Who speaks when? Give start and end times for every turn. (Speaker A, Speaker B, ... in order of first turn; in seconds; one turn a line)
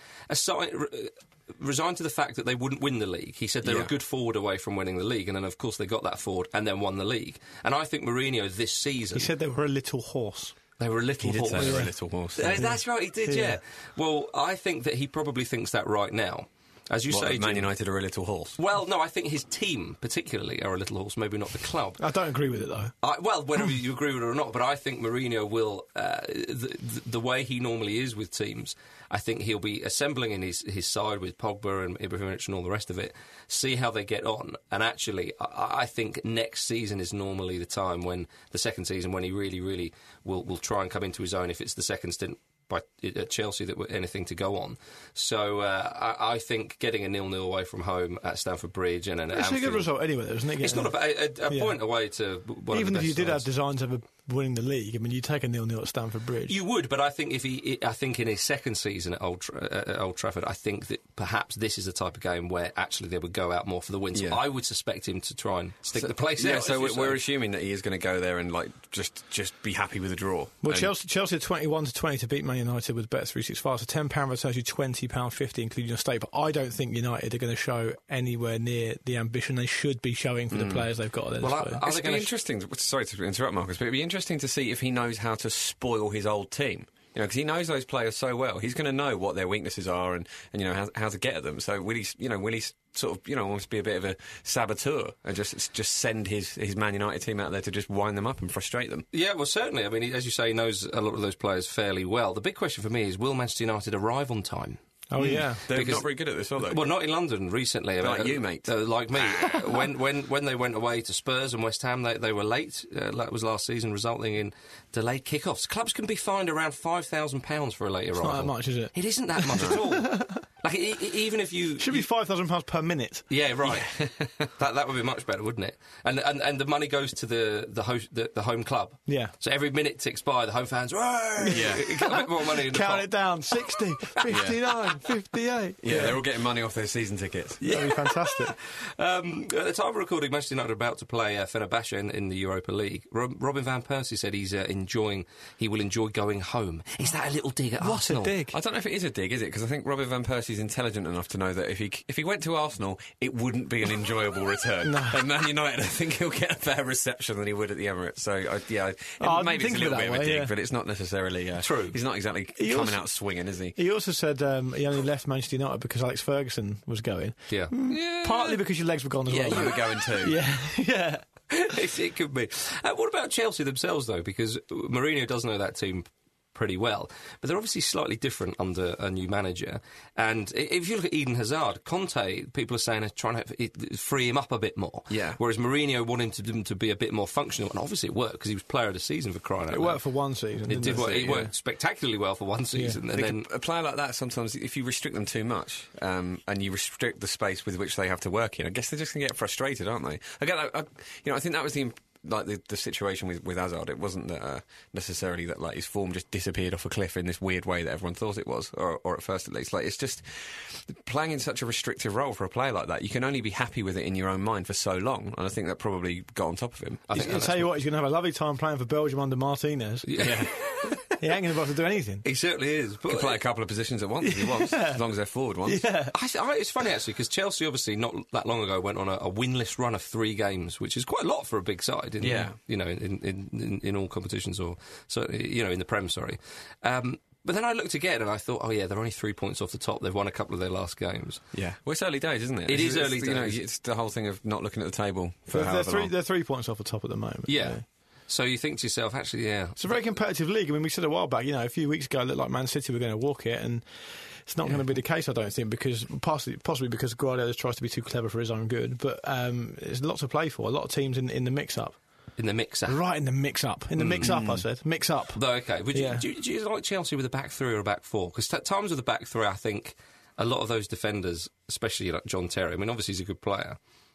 Speaker A: 0.3-9.3
Speaker B: 3.6-3.9
Speaker C: 9.1-10.5
Speaker A: 10.8-17.7
Speaker B: 11.2-12.7
Speaker C: 11.5-11.9
Speaker C: 12.5-13.6
Speaker B: 17.1-18.6
Speaker A: 18.6-22.0
Speaker C: 22.0-22.9
Speaker A: 23.0-49.9
Speaker C: 49.3-51.8
Speaker A: 50.6-53.4
Speaker C: 52.7-56.6
Speaker A: 56.5-67.2
Speaker B: 64.1-64.4
Speaker B: 65.9-70.9
Speaker C: 70.6-81.8
Speaker B: 80.5-80.9
Speaker A: 81.4-82.3
Speaker B: 81.8-99.1
Speaker A: 99.1-104.8
Speaker C: 105.1-105.6
Speaker B: 105.2-106.8
Speaker A: 105.7-106.1
Speaker A: 106.6-122.0
Speaker B: 108.0-109.5
Speaker C: 118.2-120.4
Speaker C: 121.8-123.3
Speaker A: 123.3-123.9
Speaker B: 123.7-124.5
Speaker A: 124.6-133.1
Speaker C: 131.4-136.2
Speaker B: 131.5-131.9
Speaker B: 134.3-134.6
Speaker B: 135.8-137.6
Speaker A: 137.6-148.3
Speaker C: 137.6-138.6
Speaker C: 147.8-148.6
Speaker B: 148.5-163.8
Speaker C: 154.8-155.2
Speaker C: 159.2-160.5
Speaker A: 161.6-162.0
Speaker C: 162.6-163.2
Speaker C: 163.7-171.2
Speaker B: 167.8-168.6
Speaker B: 169.3-170.4
Speaker A: 171.5-190.0
Speaker B: 185.1-185.4
Speaker C: 189.7-191.2
Speaker A: 190.7-193.5
Speaker B: 190.8-191.5
Speaker C: 192.8-193.0
Speaker B: 193.1-217.0
Speaker A: 217.1-217.7
Speaker C: 217.1-220.1
Speaker A: 220.1-221.0
Speaker B: 220.2-220.5
Speaker C: 221.2-222.2
Speaker A: 222.2-223.4
Speaker B: 223.1-225.8
Speaker C: 224.2-225.0
Speaker C: 225.6-226.1
Speaker A: 226.1-241.4
Speaker B: 232.2-232.5
Speaker B: 241.5-246.1
Speaker A: 242.7-243.6
Speaker C: 245.5-247.8
Speaker A: 247.5-249.8
Speaker C: 249.8-253.8
Speaker C: 254.4-262.0
Speaker A: 262.4-263.0
Speaker C: 262.9-265.4
Speaker A: 264.0-264.4
Speaker B: 264.1-264.6
Speaker A: 265.4-273.8
Speaker C: 265.9-266.2